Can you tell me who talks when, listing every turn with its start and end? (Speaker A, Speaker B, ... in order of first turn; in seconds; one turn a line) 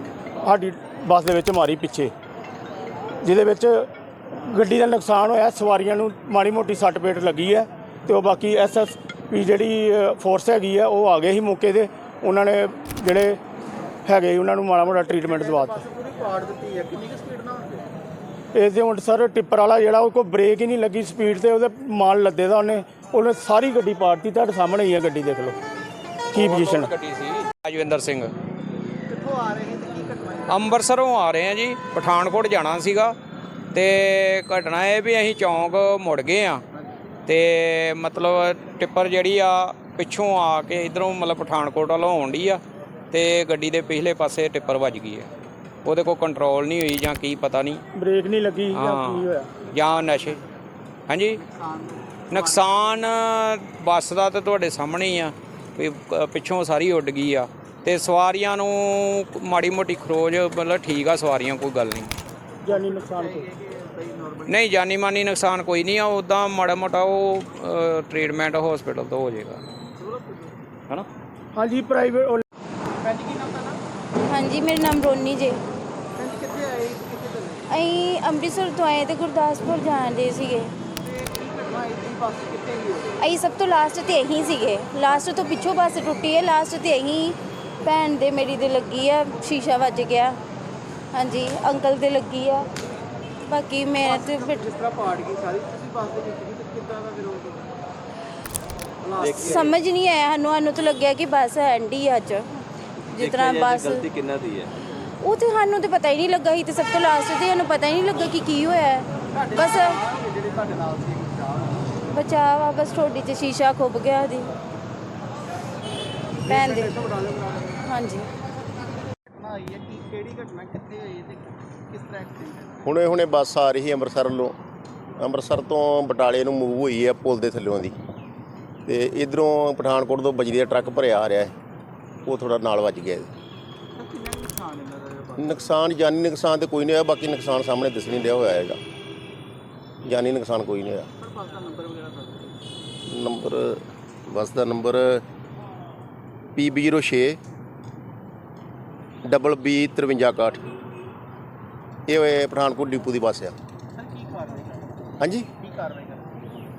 Speaker A: 0.4-2.1
Speaker A: 3.2-3.9
Speaker A: 4.5-13.4
Speaker A: 14.1-15.8
Speaker B: 15.2-17.9
Speaker A: 18.5-25.6
Speaker A: 26.3-26.9
Speaker C: 26.3-28.3
Speaker B: 29.1-30.8
Speaker C: 30.5-33.1
Speaker C: 33.7-36.6
Speaker C: 37.3-42.6
Speaker C: 43.1-45.3
Speaker C: 45.8-47.8
Speaker A: 48.0-49.5
Speaker C: 48.7-50.4
Speaker B: 49.8-50.5
Speaker C: 51.1-51.4
Speaker B: 51.3-53.0
Speaker C: 52.3-62.1
Speaker A: 62.6-63.5
Speaker B: 62.6-64.7
Speaker C: 64.5-69.6
Speaker B: 70.0-70.6
Speaker A: 71.5-72.4
Speaker B: 73.0-73.8
Speaker D: 74.3-75.6
Speaker B: 76.2-77.7
Speaker D: 77.7-80.7
Speaker B: 81.0-83.2
Speaker D: 83.2-90.4
Speaker D: 91.1-92.7
Speaker D: 93.4-94.7
Speaker B: 94.0-97.8
Speaker B: 99.0-99.7
Speaker E: 99.2-99.8
Speaker D: 99.6-102.7
Speaker E: 103.0-104.7
Speaker D: 103.3-104.0
Speaker D: 105.2-110.0
Speaker B: 109.3-112.0
Speaker D: 112.1-114.5
Speaker B: 116.4-117.8
Speaker D: 116.5-116.9
Speaker D: 117.8-118.3
Speaker B: 119.3-123.0
Speaker F: 122.8-124.5
Speaker F: 125.2-128.0
Speaker F: 128.8-131.5
Speaker F: 132.2-133.3
Speaker B: 133.9-135.8
Speaker F: 135.4-138.8
Speaker F: 140.0-141.1
Speaker B: 141.2-142.5
Speaker F: 143.1-145.2
Speaker F: 146.5-147.4
Speaker F: 149.2-150.7
Speaker F: 152.1-153.5
Speaker B: 153.9-156.4
Speaker F: 155.2-155.5